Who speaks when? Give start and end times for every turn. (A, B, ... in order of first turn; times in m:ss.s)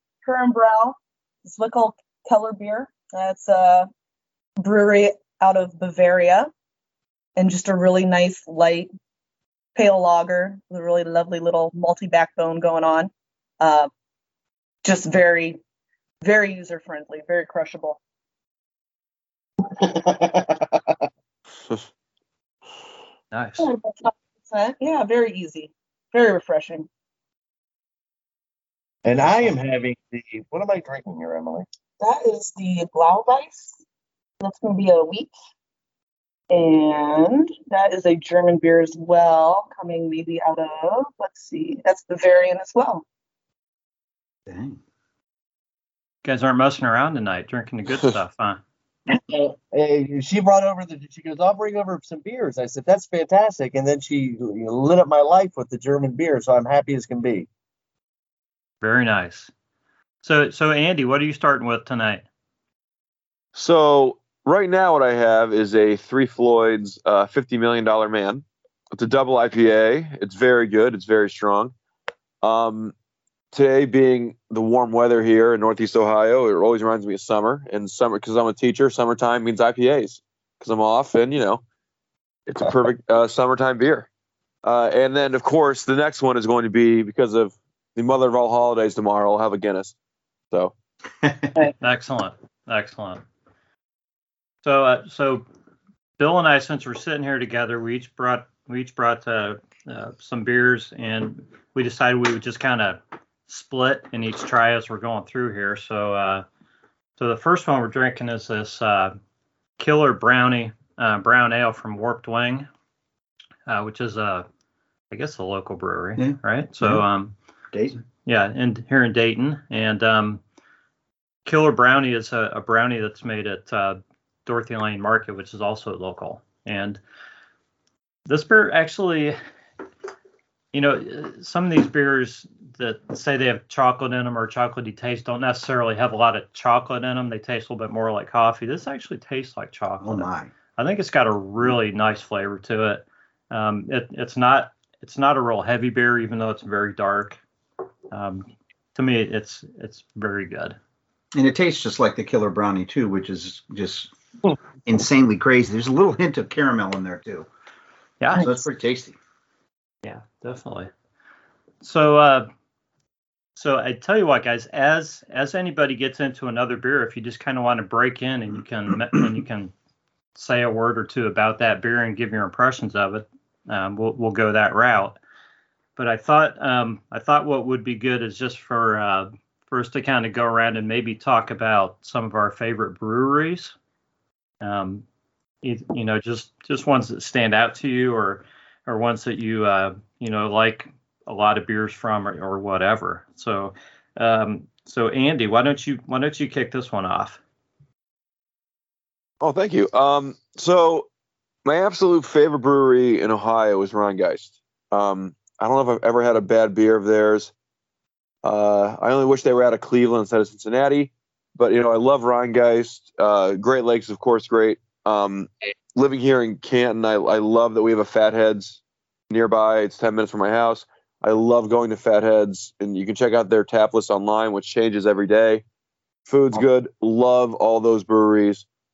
0:00.2-0:03.9 A
0:04.6-0:06.5 A
0:07.4-0:08.9 A
0:09.7-0:13.9 A
0:14.8-0:15.6 A
0:16.2-0:18.0 A
0:19.6-0:21.0 B
0:23.3-0:23.7 C
0:23.6-0:26.9 A
0:29.0-0:31.6 B
0:32.0-0:33.7 A
0:34.4-0:35.3 A
0:36.5-0:43.0 A
0:44.5-0:44.8 D
0:46.2-0:48.6 C
0:49.1-0:57.5 B
0:58.8-0:59.5 C
1:00.2-1:02.2 C
1:03.5-1:11.7 E
1:12.4-1:12.9 E
1:13.5-1:21.6 E
1:22.5-1:24.1 E
1:24.6-1:29.9 E
1:31.2-1:31.5 D
1:31.8-1:33.2 C
1:34.6-1:35.4 C
1:36.2-1:46.4 C
1:47.2-1:49.1 C
1:49.8-1:52.7 C
1:53.7-1:54.5 C
1:55.1-1:57.3 C
1:56.2-1:57.0 D
1:57.7-1:58.0 D
1:58.2-2:00.4 C
2:01.4-2:07.0 C
2:08.2-2:09.4 C
2:10.7-2:27.4 C
2:20.0-2:20.5 D
2:28.1-2:30.8 C
2:31.3-2:34.1 D
2:34.8-2:37.5 D
2:38.2-2:38.5 C
2:38.4-2:39.2 D
2:40.0-2:40.9 C
2:41.8-2:42.5 C
2:43.6-2:49.7 C
2:50.4-2:55.2 C
2:56.0-3:03.7 C
3:04.6-3:05.0 C
3:05.6-3:17.4 C
3:19.4-3:21.1 E
3:21.6-3:27.5 E
3:28.4-3:45.6 E
3:46.2-3:48.6 E